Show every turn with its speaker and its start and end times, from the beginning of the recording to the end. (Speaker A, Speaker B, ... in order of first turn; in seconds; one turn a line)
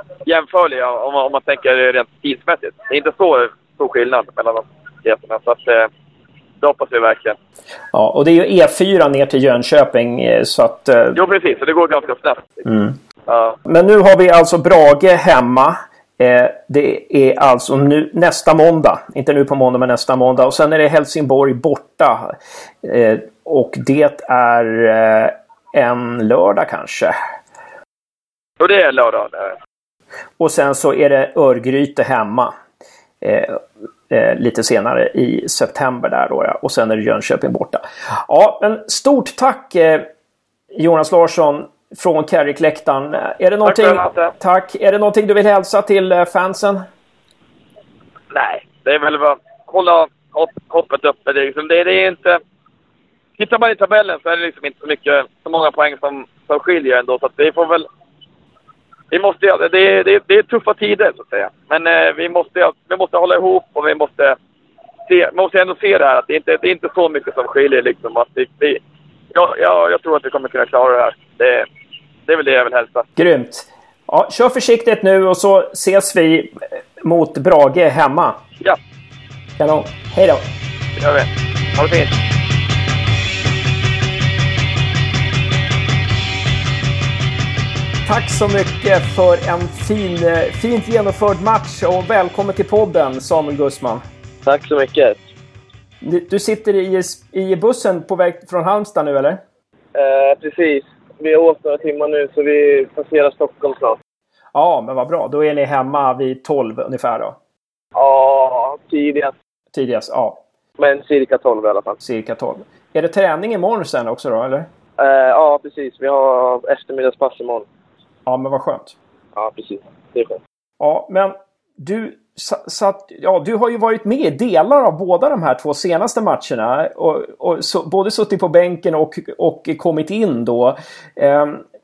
Speaker A: 0.2-5.9
Speaker A: 6.6-7.4
Speaker B: 7.9-11.2
Speaker A: 11.2-12.7
Speaker B: 12.7-12.9
Speaker A: 13.3-13.6
Speaker B: 13.7-27.1
Speaker A: 28.6-29.6
Speaker B: 30.4-32.5
Speaker B: 33.2-40.1
Speaker B: 40.8-46.9
Speaker A: 43.7-44.3
Speaker A: 48.3-52.4
Speaker A: 53.4-57.9
Speaker A: 59.1-64.4
Speaker A: 65.1-68.8
Speaker A: 69.3-71.7
Speaker A: 72.3-73.1
Speaker B: 73.2-78.4
Speaker B: 79.6-80.5
Speaker A: 81.0-82.1
Speaker B: 88.1-94.0
Speaker C: 94.5-95.2
Speaker B: 96.0-99.4
Speaker C: 100.0-104.0
Speaker B: 104.5-107.4
Speaker C: 108.0-109.3
Speaker B: 109.7-110.4
Speaker C: 110.8-112.0
Speaker B: 112.0-114.7
Speaker C: 115.0-117.7
Speaker B: 118.3-119.0
Speaker C: 119.4-120.4
Speaker B: 120.8-131.6